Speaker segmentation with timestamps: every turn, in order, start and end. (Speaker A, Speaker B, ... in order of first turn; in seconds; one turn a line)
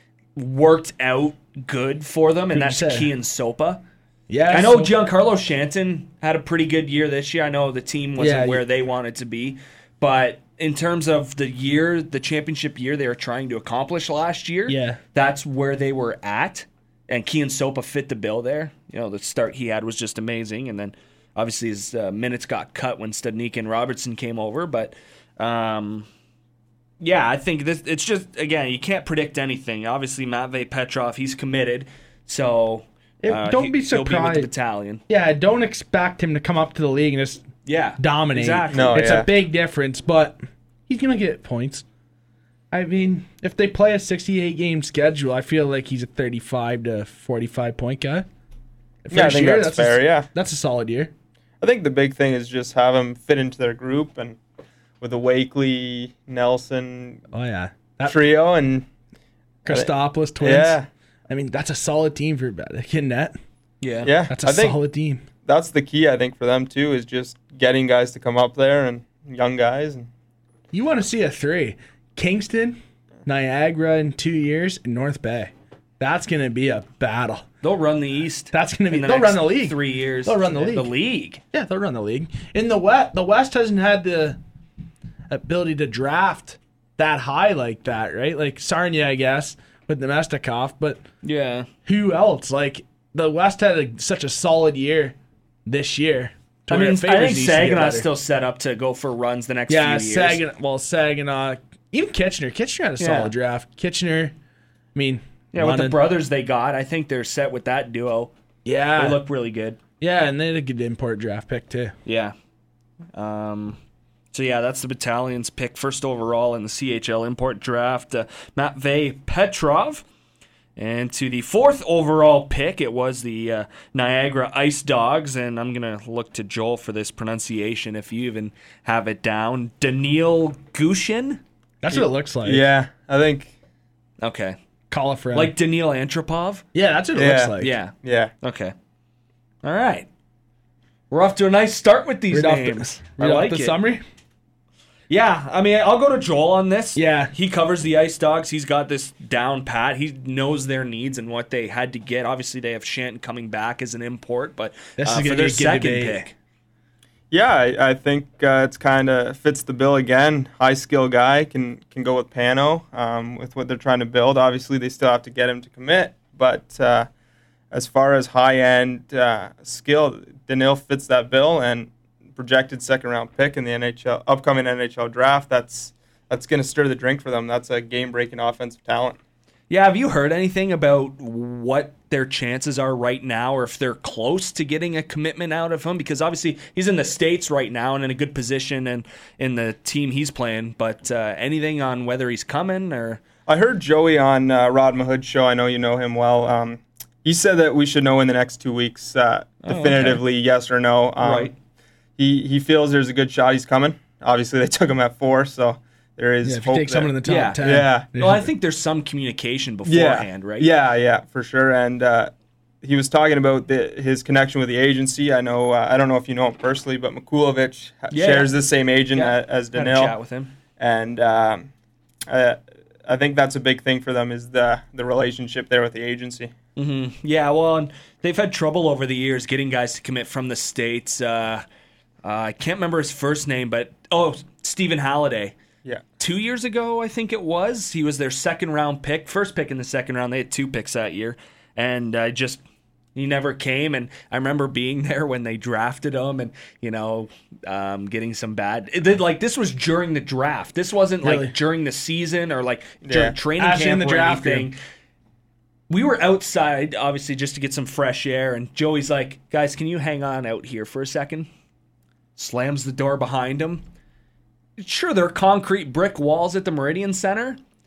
Speaker A: 0.4-3.8
Speaker B: 2.5-3.1
Speaker B: 4.3-4.9
Speaker A: 4.5-26.1
Speaker B: 8.2-8.6
Speaker B: 14.7-15.0
Speaker A: 27.0-35.0
Speaker B: 33.2-34.5
Speaker B: 35.1-37.4
Speaker A: 37.6-39.1
Speaker B: 38.0-41.9
Speaker C: 38.7-39.3
Speaker B: 42.7-48.2
Speaker B: 49.0-51.1
Speaker C: 49.1-50.3
Speaker C: 51.6-54.4
Speaker C: 55.0-57.2
Speaker B: 57.3-58.2
Speaker C: 58.0-58.9
Speaker B: 59.6-60.8
Speaker C: 59.7-60.9
Speaker B: 61.3-63.4
Speaker A: 63.8-64.1
Speaker C: 64.0-64.8
Speaker B: 64.3-65.2
Speaker C: 65.5-70.1
Speaker B: 70.7-77.5
Speaker A: 77.6-81.4
Speaker B: 78.5-80.9
Speaker B: 81.5-84.4
Speaker B: 85.3-91.0
Speaker A: 91.2-91.7
Speaker B: 91.9-95.1
Speaker B: 95.7-98.1
Speaker A: 96.7-100.4
Speaker B: 99.7-104.3
Speaker A: 103.0-103.3
Speaker B: 105.0-106.0
Speaker A: 105.5-108.3
Speaker B: 108.6-109.2
Speaker A: 109.0-109.8
Speaker B: 110.0-112.0
Speaker A: 112.0-112.3
Speaker A: 113.1-113.8
Speaker A: 114.3-120.0
Speaker A: 120.8-131.4
Speaker B: 131.8-132.7
Speaker C: 131.9-133.5
Speaker A: 134.2-134.6
Speaker B: 134.9-135.5
Speaker A: 135.3-136.6
Speaker B: 136.7-137.8
Speaker C: 137.1-138.3
Speaker A: 137.6-138.7
Speaker A: 139.6-140.1
Speaker A: 141.1-143.8
Speaker B: 142.3-144.0
Speaker A: 145.1-156.3
Speaker B: 147.0-147.3
Speaker B: 155.0-156.3
Speaker C: 157.3-167.1
Speaker C: 167.7-179.2
Speaker A: 179.7-193.2
Speaker C: 193.5-201.5
Speaker A: 199.6-200.2
Speaker A: 201.2-201.5
Speaker C: 202.2-208.1
Speaker B: 206.4-208.5
Speaker A: 207.2-210.7
Speaker C: 209.9-212.3
Speaker C: 212.8-220.2
Speaker A: 218.1-218.5
Speaker A: 219.1-220.5
Speaker C: 220.8-221.7
Speaker C: 222.3-226.5
Speaker A: 226.8-231.6
Speaker A: 232.2-235.5
Speaker A: 236.2-242.6
Speaker A: 243.2-254.8
Speaker B: 251.2-251.5
Speaker C: 253.1-253.3
Speaker B: 253.6-254.7
Speaker A: 255.9-261.5
Speaker A: 262.4-263.8
Speaker A: 264.8-267.6